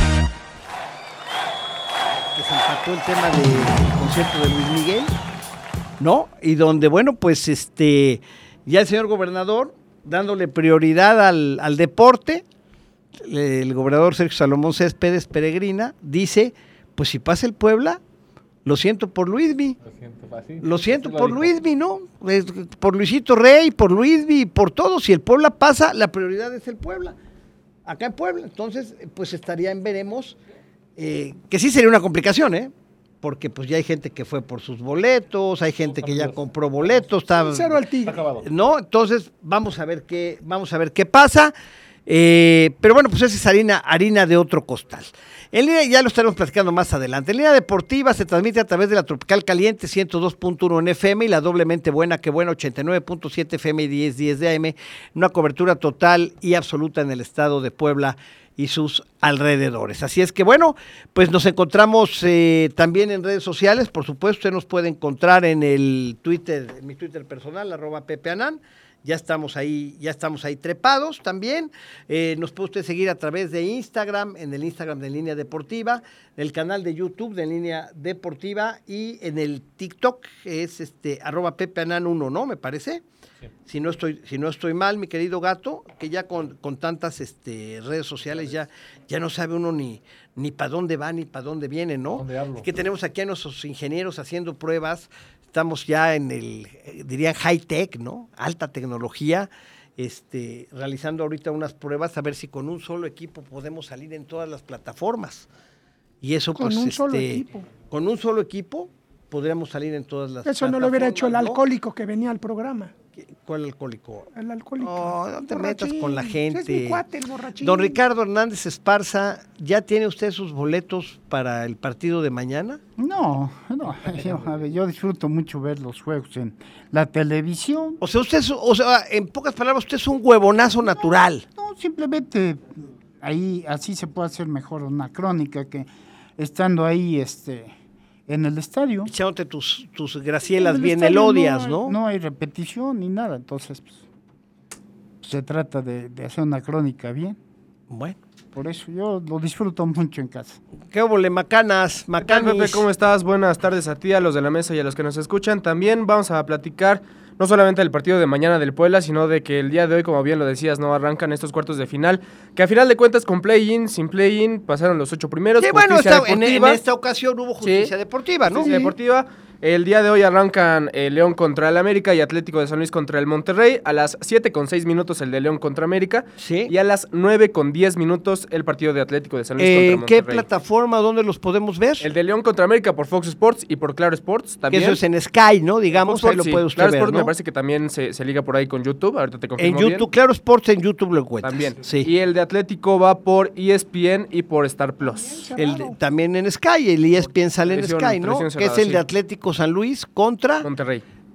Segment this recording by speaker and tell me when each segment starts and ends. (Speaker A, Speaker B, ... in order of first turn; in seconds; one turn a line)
Speaker A: 2.3-5.1
Speaker A: 6.0-12.4
Speaker A: 13.2-18.0
Speaker A: 18.6-19.8
Speaker B: 19.8-21.5
Speaker A: 20.6-27.2
Speaker A: 27.9-30.4
Speaker A: 31.0-37.8
Speaker B: 35.9-36.4
Speaker C: 37.2-38.2
Speaker B: 38.1-38.5
Speaker A: 38.3-41.5
Speaker A: 42.1-83.0
Speaker A: 83.7-105.5
Speaker B: 92.1-92.7
Speaker A: 106.2-111.6
Speaker C: 106.6-107.7
Speaker C: 110.5-112.9
Speaker A: 113.2-117.0
Speaker C: 114.3-118.0
Speaker A: 117.6-122.8
Speaker D: 123.0-128.0
Speaker A: 128.0-131.4
Speaker D: 131.6-137.7
Speaker D: 138.3-139.1
Speaker A: 139.1-142.0
Speaker D: 140.6-144.0
Speaker D: 145.2-147.4
Speaker A: 147.9-148.2
Speaker D: 148.6-150.6
Speaker A: 150.9-152.9
Speaker E: 152.2-166.8
Speaker A: 165.6-168.9
Speaker E: 167.6-167.9
Speaker E: 168.5-180.5
Speaker A: 176.4-176.7
Speaker A: 179.6-182.1
Speaker E: 182.0-185.0
Speaker A: 184.7-187.3
Speaker E: 186.0-190.1
Speaker A: 189.6-192.1
Speaker E: 191.4-195.4
Speaker C: 195.1-195.9
Speaker A: 195.6-200.7
Speaker E: 197.3-199.0
Speaker E: 200.6-201.1